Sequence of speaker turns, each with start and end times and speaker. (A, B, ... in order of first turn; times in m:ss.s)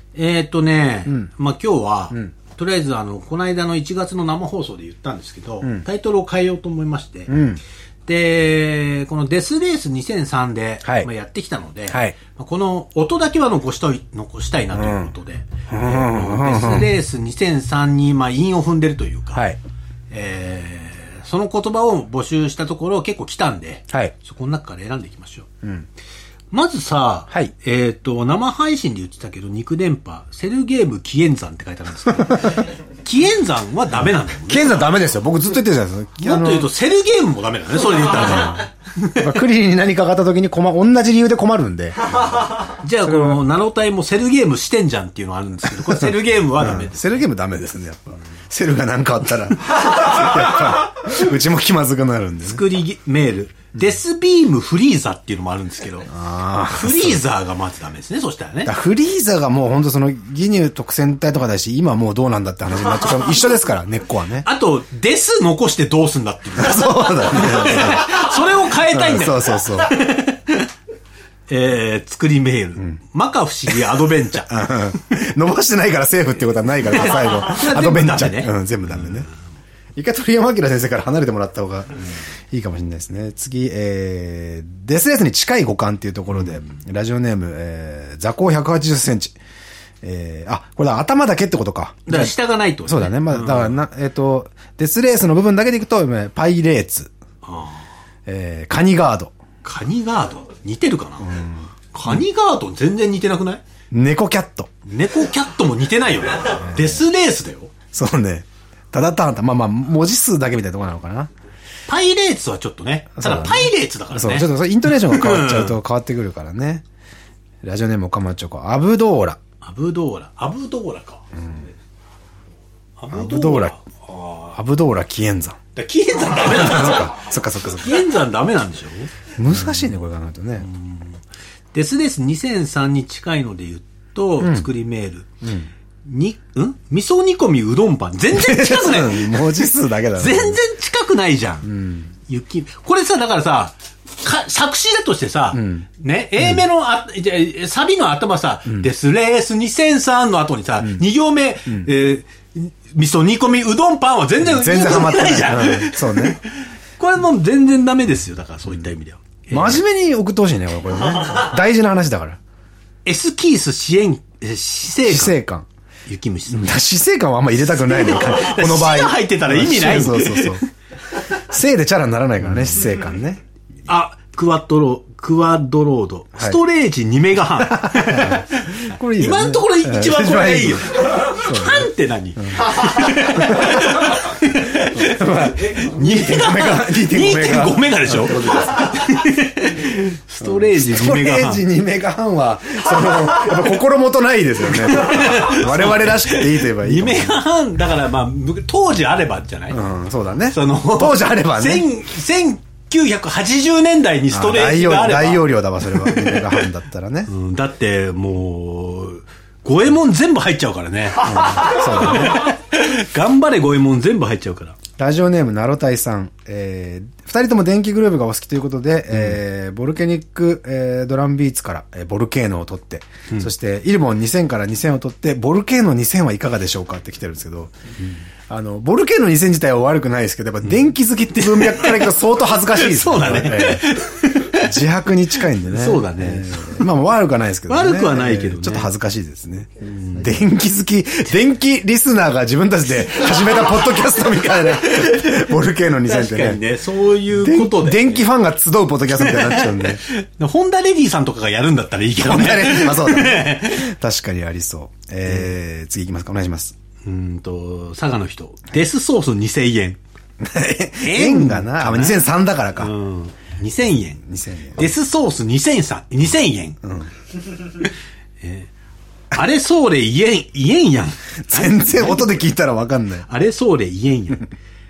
0:00.1-0:07.4 A
0:01.1-0:01.3 B
0:07.3-0:07.6 B
0:08.1-0:19.4 A
0:10.8-0:11.1 B
0:11.9-0:12.2 B
0:14.7-0:15.1 B
0:15.7-0:16.9 B
0:20.1-0:25.5 A
0:25.6-0:25.9 B
0:26.5-0:34.9 A
0:34.5-0:36.7 B
0:36.2-0:39.3 A
0:37.9-0:43.4 B
0:42.7-0:47.2 A
0:45.7-0:52.6 B
0:52.4-0:56.1 A
0:56.1-0:57.2 B
0:56.7-0:58.7 A
0:58.7-1:04.5 B
1:04.4-1:10.7 A
1:06.6-1:10.0 B
1:11.5-1:14.6 A
1:14.5-1:19.3 B
1:17.2-1:18.6 A
1:20.0-1:29.4 B
1:30.0-1:37.1 B
1:32.1-1:33.8 A
1:37.4-1:37.9 A
1:38.3-1:39.4 B
1:39.6-1:43.6 A
1:41.2-1:42.2 B
1:43.9-1:44.7 B
1:44.9-1:47.7 A
1:46.5-1:47.0 B
1:47.9-1:51.3 B
1:51.9-1:55.8 A
1:53.2-1:56.9 B
1:57.6-1:59.4 B
1:59.6-2:01.2 A
2:01.3-2:01.7 B
2:03.0-2:04.6 A
2:03.1-2:03.8 B
2:04.5-2:05.6 B
2:05.8-2:09.9 A
2:06.5-2:08.0 B
2:09.4-2:10.7 B
2:10.6-2:11.2 A
2:11.7-2:15.3 A
2:14.4-2:14.7 B
2:15.4-2:15.7 B
2:16.0-2:21.7 A
2:18.3-2:20.6 B
2:21.6-2:22.2 B
2:22.2-2:39.8 A
2:25.5-2:25.9 B
2:34.4-2:36.4 B
2:39.5-2:42.4 B
2:43.0-2:45.4 A
2:45.0-2:45.7 B
2:46.1-2:46.7 A
2:46.5-2:50.6 B
2:47.7-2:50.6 A
2:51.3-2:53.4 B
2:53.9-3:11.6 A
2:56.4-2:56.6 B
2:57.6-3:09.0 B
3:10.4-3:17.4 B
3:14.7-3:19.8 A
3:19.7-3:21.9 B
3:20.4-3:26.7 A
3:24.3-3:27.3 B
3:27.3-3:34.8 A
3:31.2-3:32.5 B
3:35.0-3:47.7 B
3:48.5-3:54.0 B
3:51.4-3:52.1 A
3:52.7-3:54.7 A
3:54.5-4:06.6 B
3:55.7-3:56.9 A
3:57.7-3:58.9 A
3:59.8-4:00.3 A
4:04.8-4:05.3 A
4:06.0-4:08.2 A
4:07.3-4:10.0 B
4:09.2-4:13.9 A
4:12.2-4:16.8 B
4:17.0-4:20.0 A
4:20.4-4:23.0 B
4:21.0-4:24.2 A
4:24.2-4:24.8 B
4:24.8-4:26.8 A
4:26.8-4:27.1 B
4:28.4-4:28.7 A
4:29.3-4:32.4 A
4:31.4-4:33.3 B
4:33.3-4:34.5 A